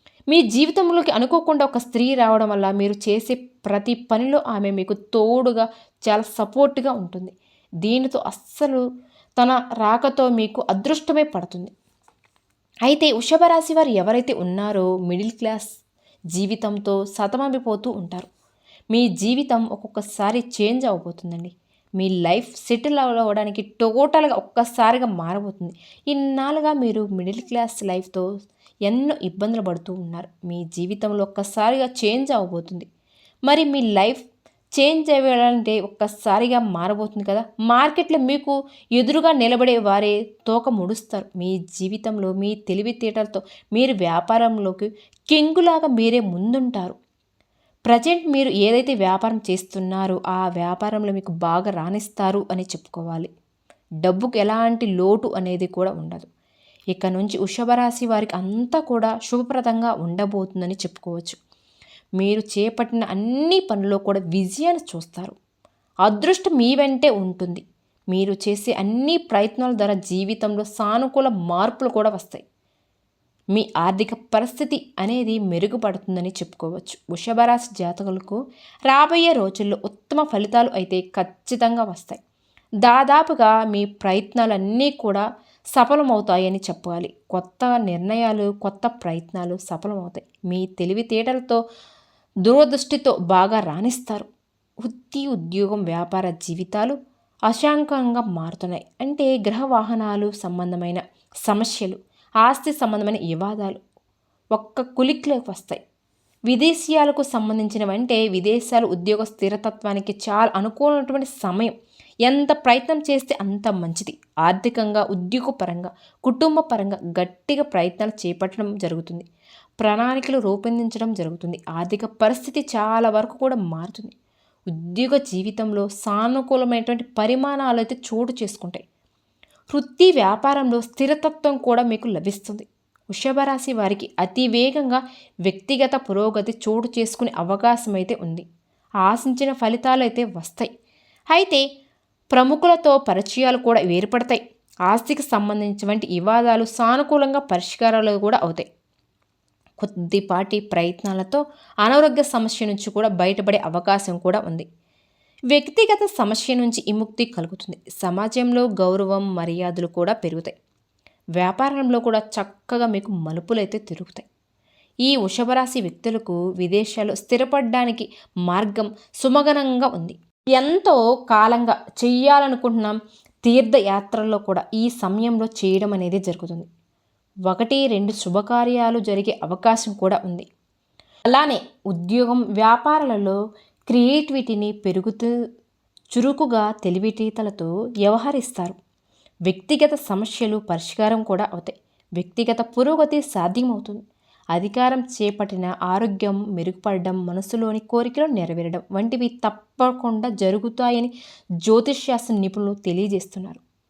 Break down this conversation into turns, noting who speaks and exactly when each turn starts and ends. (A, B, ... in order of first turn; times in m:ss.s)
0:00.3-0:08.8 A
0:09.4-0:11.7 A
0:12.8-0:15.6 A
0:16.3-0:18.3 A
0:18.9-0:28.2 A
0:28.8-0:32.9 A
0:33.5-0:34.2 A
0:34.8-0:47.0 A
0:47.9-0:53.3 A
0:54.0-0:56.3 A
0:56.9-1:01.4 A
1:02.2-1:05.3 A
1:06.1-1:12.4 A
1:13.5-1:18.4 A
1:18.9-1:22.2 A
1:22.8-1:25.2 A
1:25.8-1:31.6 A
1:32.4-1:34.3 A
1:34.8-1:36.9 A
1:37.5-1:43.8 A
1:44.5-1:45.8 A
1:46.5-1:51.7 A
1:52.2-1:59.2 A
1:59.8-2:04.1 A
2:04.7-2:08.8 A
2:09.7-2:18.4 A
2:19.0-2:20.7 A
2:21.3-2:21.6 A
2:22.3-2:28.6 A
2:29.8-2:34.6 A
2:35.5-2:40.5 A
2:41.4-2:44.2 A
2:45.0-2:56.7 A
2:57.5-3:00.4 A
3:01.3-3:03.4 A
3:03.9-3:05.3 A
3:06.1-3:08.8 A
3:09.5-3:14.0 A
3:14.5-3:21.1 A
3:21.6-3:23.6 A